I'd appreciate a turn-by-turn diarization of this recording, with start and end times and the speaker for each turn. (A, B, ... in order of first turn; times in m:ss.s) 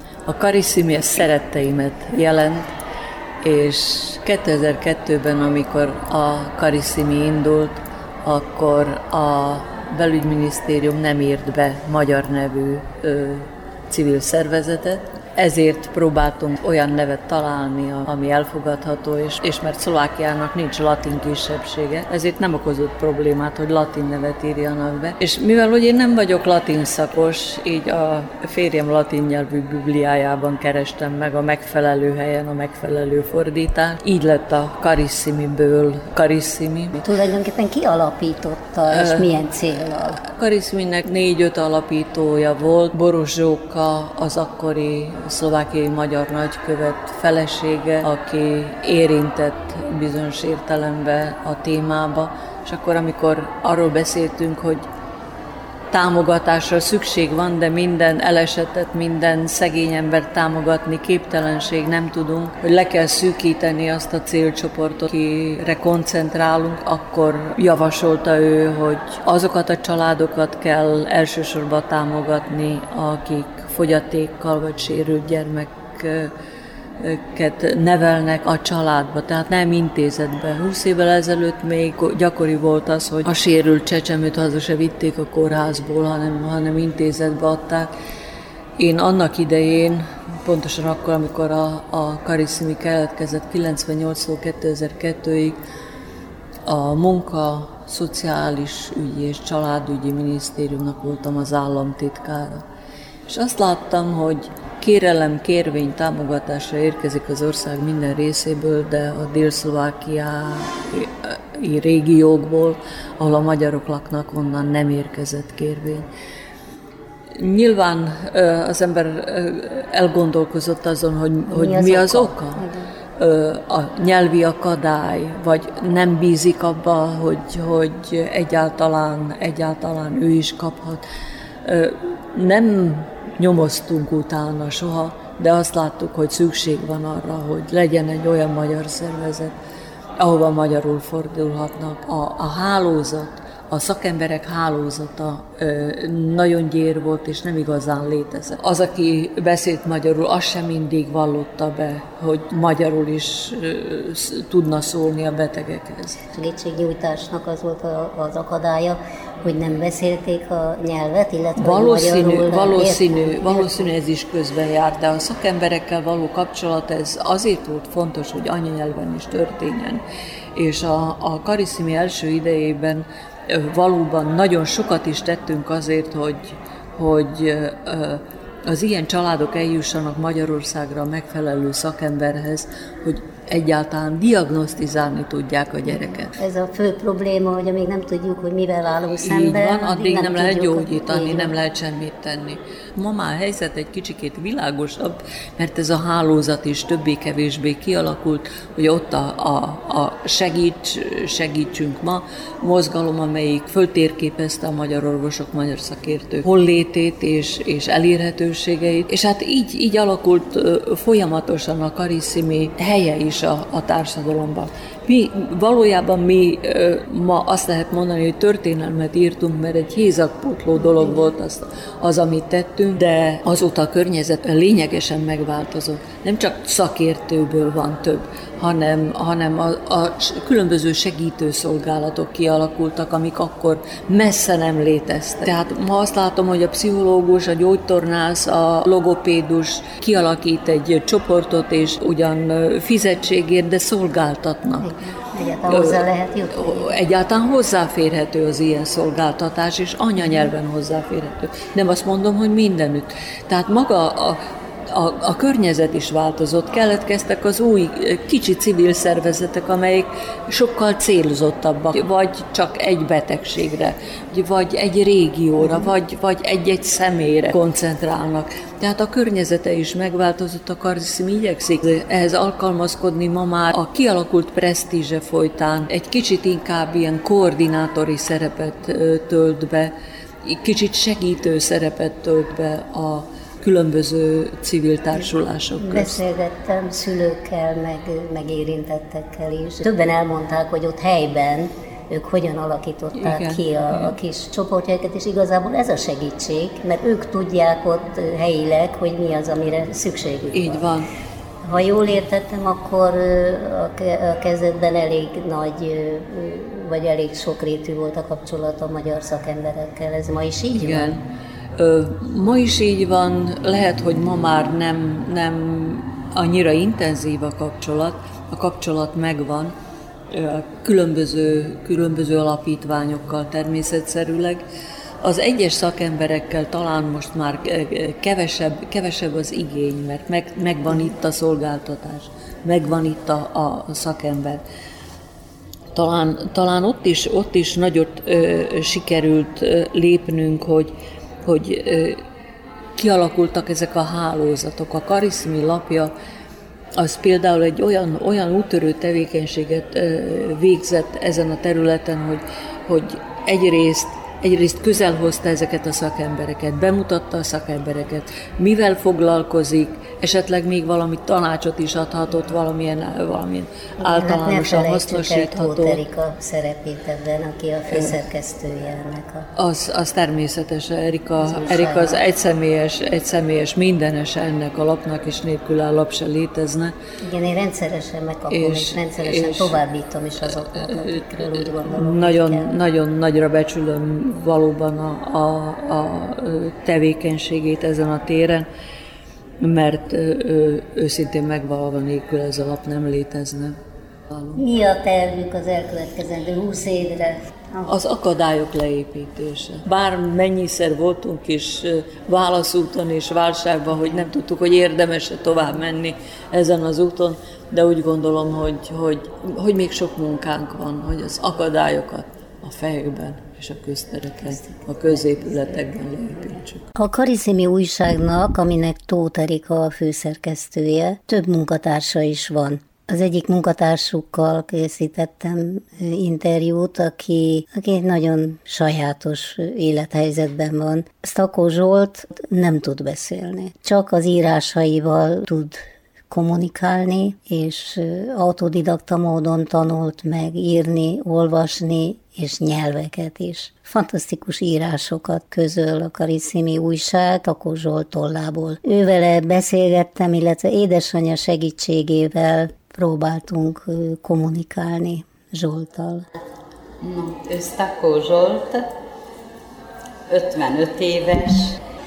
0:00.3-0:02.7 A
0:03.4-0:37.0 A
0:37.0-0:40.2 B
0:38.9-0:39.3 A
0:40.4-0:54.8 A
0:55.9-1:16.3 A
1:17.0-1:27.9 A
1:28.8-1:35.6 A
1:36.7-1:42.6 A
1:43.3-1:56.0 A
1:57.4-2:02.6 A
2:01.5-2:02.9 B
2:03.2-2:11.0 A
2:11.6-2:19.5 A
2:20.2-2:36.2 A
2:36.3-2:43.9 B
2:41.6-2:50.0 A
2:50.6-3:06.4 A
3:06.4-3:11.5 B
3:09.2-4:04.9 A
4:04.8-4:07.0 B
4:05.6-4:14.4 A
4:14.9-4:39.9 A
4:40.4-4:46.2 A
4:45.8-5:00.8 B
4:53.1-4:54.2 A
5:00.5-5:01.1 A
5:01.6-5:11.2 B
5:10.7-5:11.2 A
5:11.8-5:19.7 A
5:20.3-5:24.6 A
5:25.2-5:34.6 A
5:35.9-5:40.9 A
5:41.4-5:42.2 A
5:43.0-5:46.1 A
5:47.0-6:06.0 A
6:04.0-6:09.4 B
6:09.6-6:16.9 A
6:11.4-6:12.2 B
6:17.2-6:22.7 B
6:18.5-6:19.8 A
6:20.5-6:28.6 A
6:29.6-6:33.7 A
6:34.5-6:37.9 B
6:37.8-6:56.9 A
6:57.0-7:36.2 B
7:37.0-7:38.9 C
7:40.3-7:41.8 C